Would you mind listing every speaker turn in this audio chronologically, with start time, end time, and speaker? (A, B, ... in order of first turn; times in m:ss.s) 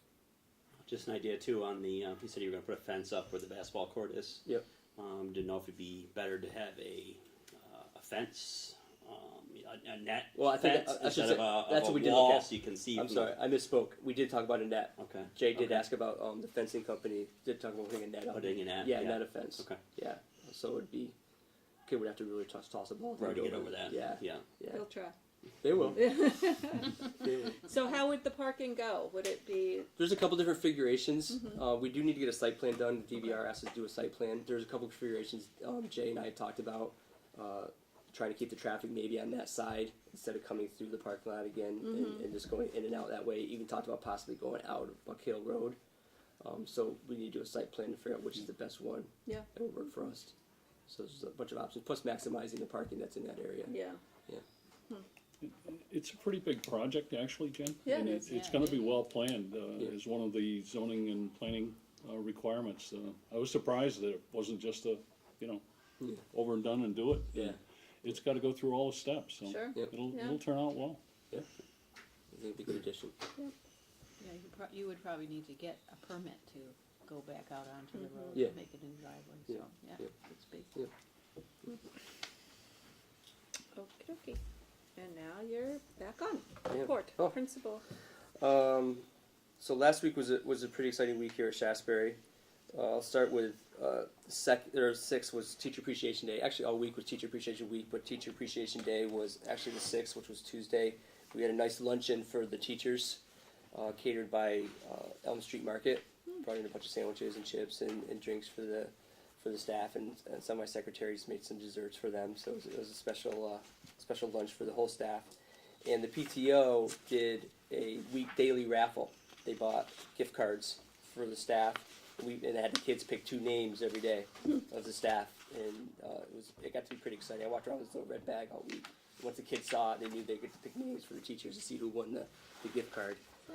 0:00.8-0:13.4 A
0:10.3-0:21.1 B
0:15.0-0:15.8 A
0:18.3-0:19.8 A
0:21.9-0:24.8 B
0:23.2-0:24.4 A
0:24.7-0:25.1 C
0:25.6-0:26.3 B
0:25.9-0:26.8 C
0:27.2-0:27.6 B
0:27.7-0:29.8 C
0:30.0-0:45.8 B
0:41.8-0:42.2 C
0:46.4-0:50.3 B
0:50.9-0:53.7 B
0:55.4-1:05.6 D
0:58.2-0:58.9 E
1:06.3-1:11.4 D
1:09.6-1:10.2 C
1:12.3-1:13.2 B
1:14.2-1:20.7 E
1:17.9-1:18.4 C
1:19.5-1:20.1 B
1:23.8-1:24.4 C
1:25.0-1:27.8 C
1:26.7-1:27.3 B
1:28.4-1:29.0 B
1:29.6-1:32.2 B
1:32.7-1:43.2 B
1:43.7-1:55.3 B
1:55.8-2:13.2 B